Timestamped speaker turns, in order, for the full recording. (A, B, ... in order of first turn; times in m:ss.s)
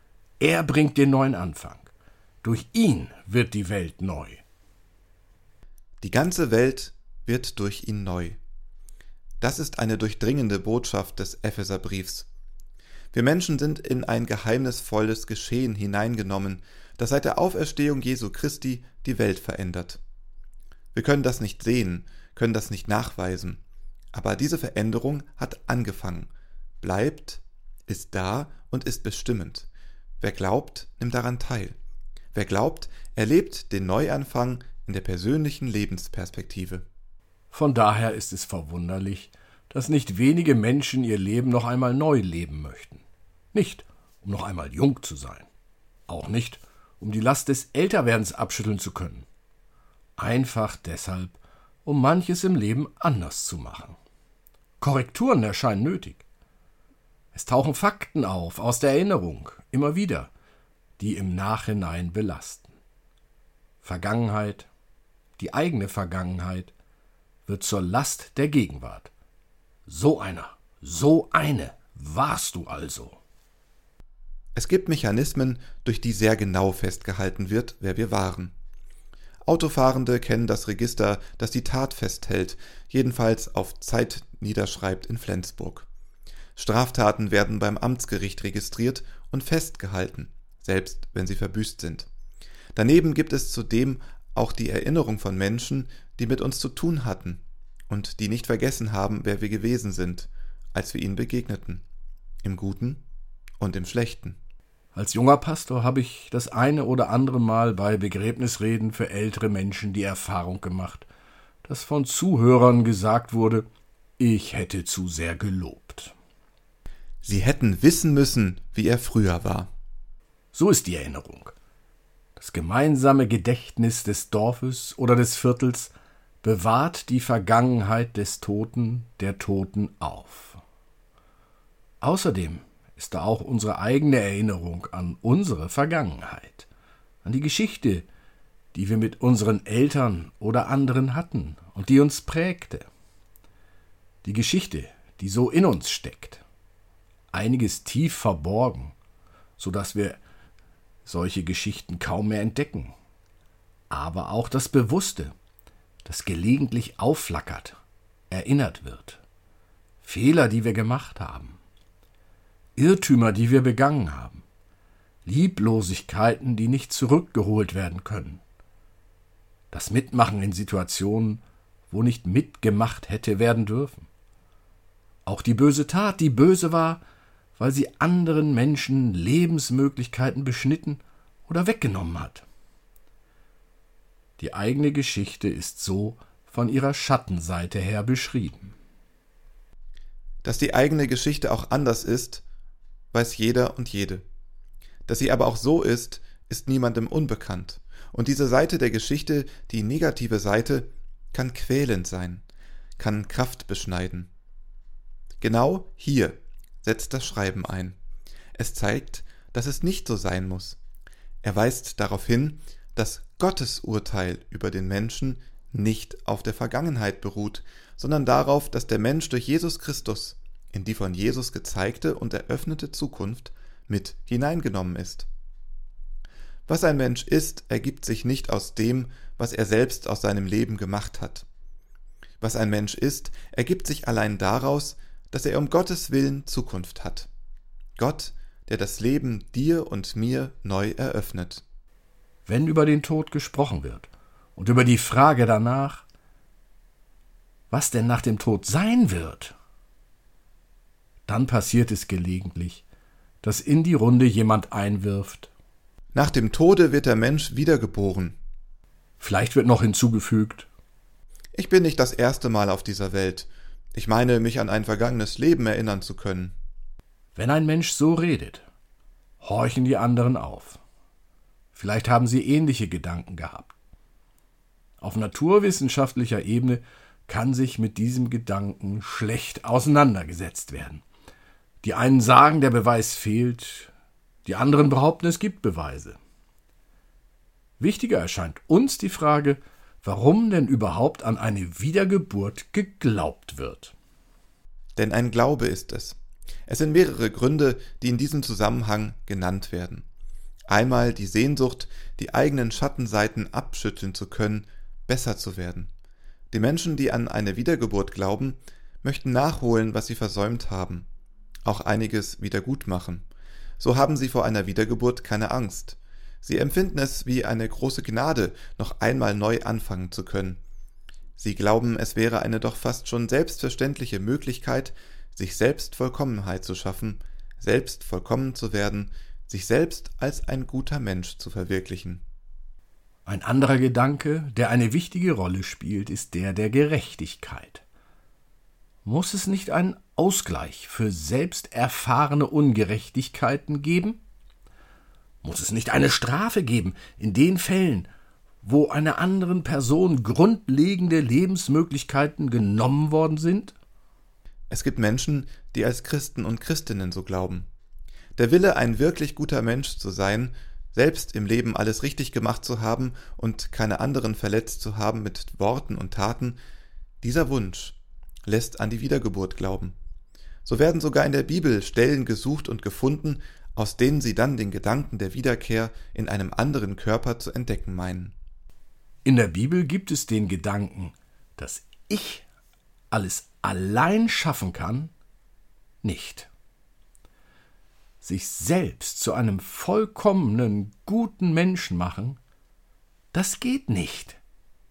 0:00.4-0:01.9 A
0:02.4-0:04.4 A
0:06.0-0:08.4 B
0:09.4-0:12.3 B
0:13.1-0:20.0 B
0:20.9-0:23.6 B
0:24.1-0:26.3 B
0:26.8-0:29.7 B
0:30.2-0:31.8 B
0:32.3-0:36.8 B
0:37.5-0:45.5 A
0:46.1-0:49.3 A
0:50.2-0:54.0 A
0:54.8-0:56.2 A
0:57.3-1:00.3 A
1:01.0-1:02.7 A
1:03.8-1:04.7 A
1:05.4-1:06.7 A
1:07.4-1:09.1 A
1:09.9-1:13.2 A
1:14.5-1:18.5 B
1:19.4-1:25.9 B
1:26.6-1:32.1 B
1:32.7-1:41.8 B
1:42.4-1:43.0 B
1:43.6-1:44.4 B
1:44.9-1:51.1 A
1:51.6-1:53.6 A
1:54.2-1:56.1 A
1:57.2-1:59.7 B
2:00.5-2:01.5 A
2:02.4-2:10.6 A
2:12.0-2:16.7 A
2:17.2-2:18.1 A
2:18.7-2:22.9 A
2:24.2-2:26.4 A
2:27.3-2:28.9 A
2:29.6-2:30.2 A
2:31.0-2:32.9 A
2:33.9-2:35.3 A
2:36.0-2:37.8 A
2:38.3-2:39.2 A
2:40.0-2:41.6 A
2:42.8-2:44.4 A
2:45.2-2:48.4 A
2:49.7-2:54.1 A
2:55.2-2:57.0 A
2:57.6-3:02.4 A
3:04.4-3:08.7 A
3:10.4-3:12.4 B
3:13.1-3:14.2 B
3:15.1-3:22.4 B
3:23.0-3:24.3 B
3:25.4-3:28.0 B
3:28.5-3:30.8 B
3:31.4-3:45.3 B
3:46.7-3:51.4 B
3:52.4-3:57.3 B
3:58.0-4:01.6 B
4:02.4-4:06.0 A
4:07.7-4:09.6 A
4:11.3-4:12.8 A
4:13.4-4:15.5 A
4:16.1-4:18.4 B
4:19.2-4:20.7 A
4:21.5-4:26.5 B
4:27.3-4:28.6 A
4:29.4-4:30.8 A
4:31.7-4:33.7 A
4:35.0-4:41.0 A
4:41.8-4:43.9 A
4:44.4-4:46.2 A
4:47.8-4:53.9 A
4:55.0-5:00.0 B
5:00.7-5:05.9 B
5:06.5-5:11.0 B
5:11.6-5:13.2 B
5:13.8-5:20.6 B
5:21.4-5:32.2 B
5:33.2-5:37.8 A
5:39.0-5:44.2 A
5:45.4-5:48.1 A
5:48.6-5:53.7 A
5:54.7-5:57.7 B
5:58.4-6:06.6 B
6:07.2-6:09.9 B
6:10.6-6:18.4 B
6:19.2-6:22.4 A
6:23.1-6:25.1 A
6:26.0-6:26.5 A
6:28.2-6:32.4 A
6:33.3-6:34.4 A